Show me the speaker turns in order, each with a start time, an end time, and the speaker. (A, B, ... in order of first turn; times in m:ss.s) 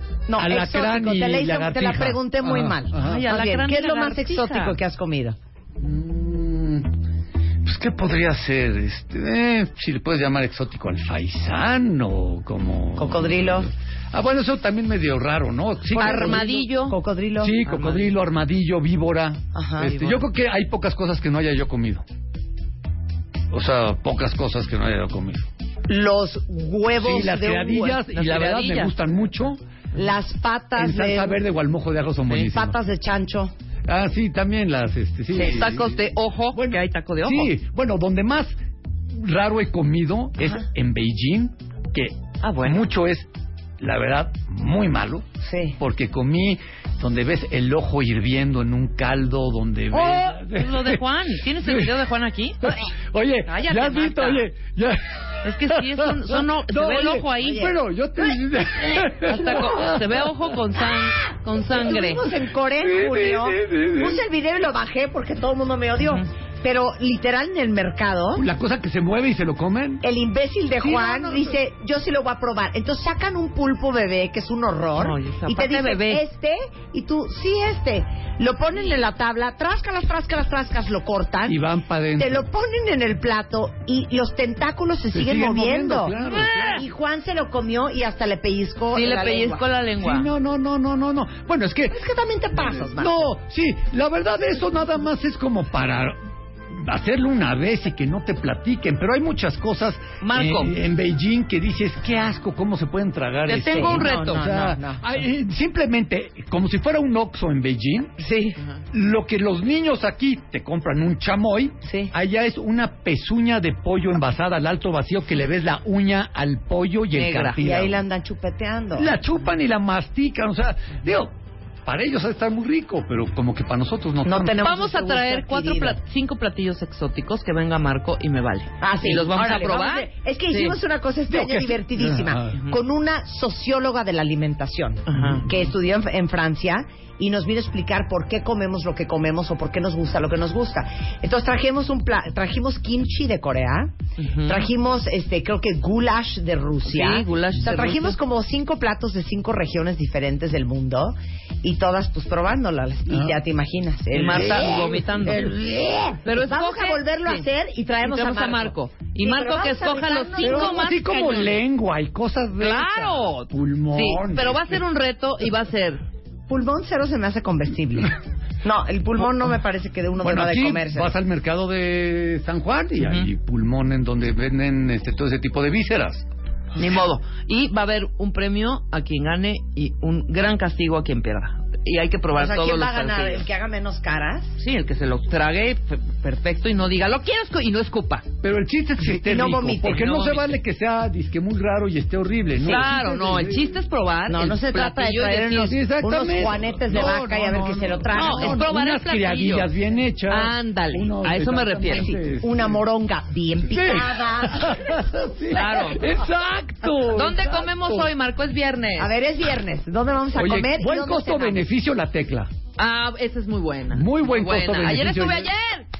0:00.3-0:05.4 A
0:00.4-0:03.2 B
0:02.9-0:04.8 C
0:05.8-0:06.9 B
0:07.6-0:16.4 B
0:13.0-0:13.7 A
0:15.9-0:17.0 C
0:16.0-0:18.2 A
0:17.4-0:22.0 B
0:19.5-0:19.9 A
0:19.9-0:20.2 C
0:23.5-0:25.5 B
0:25.9-0:28.0 A
0:27.0-0:29.6 B
0:28.1-0:28.9 C
0:29.9-0:31.4 A
0:30.8-0:32.8 B
0:32.3-0:33.5 A
0:33.9-0:35.9 B
0:35.3-0:37.5 C
0:36.5-0:38.5 B
0:39.1-0:43.3 B
0:42.4-0:42.8 C
0:43.8-0:45.2 B
0:45.4-0:45.8 A
0:45.8-0:51.0 B
0:49.9-0:52.8 C
0:51.6-0:51.9 B
0:52.6-1:00.3 B
0:53.4-0:54.5 C
0:55.4-0:57.7 C
0:59.2-1:02.2 C
1:01.7-1:08.4 A
1:02.8-1:04.2 B
1:08.4-1:10.0 B
1:10.0-1:21.6 A
1:10.8-1:11.5 B
1:14.9-1:16.2 C
1:21.5-1:22.4 B
1:22.2-1:26.1 A
1:25.1-1:26.8 B
1:26.3-1:26.8 C
1:26.7-1:29.6 A
1:28.9-1:30.3 C
1:30.0-1:32.0 B
1:31.9-1:33.3 A
1:32.6-1:36.2 B
1:36.7-1:48.2 B
1:40.2-1:40.8 C
1:43.5-1:44.4 C
1:43.7-1:45.1 A
1:48.2-1:48.6 A
1:48.9-1:58.0 B
1:51.8-1:52.1 A
1:57.1-1:57.6 C
1:57.6-1:59.1 A
1:59.0-2:01.3 B
2:01.8-2:04.6 B
2:04.2-2:06.0 A
2:04.6-2:10.8 C
2:08.8-2:23.9 A
2:11.3-2:12.6 B
2:15.1-2:15.4 C
2:24.2-2:24.6 C
2:24.4-2:40.8 A
2:26.9-2:28.2 C
2:33.1-2:33.4 B
2:34.1-2:35.5 C
2:34.4-2:35.5 B
2:36.2-2:37.4 C
2:38.0-2:41.6 C
2:40.4-2:44.8 B
2:42.6-2:46.0 C
2:46.5-2:51.1 A
2:50.2-2:56.2 B
2:53.0-2:53.3 C
2:56.8-3:03.4 C
3:02.3-3:04.6 A
3:04.6-3:08.2 C
3:08.4-3:13.6 B
3:09.0-3:10.0 A
3:09.8-3:10.5 C
3:12.6-3:12.9 A
3:12.6-3:15.8 C
3:14.3-3:18.6 A
3:15.6-3:22.8 B
3:18.1-3:19.7 C
3:20.3-3:22.1 C
3:21.9-3:25.0 A
3:23.7-3:28.1 B
3:25.5-3:26.0 C
3:27.1-3:29.1 C
3:29.0-3:31.6 A
3:30.3-3:32.5 B
3:32.8-3:35.9 C
3:33.9-3:35.5 B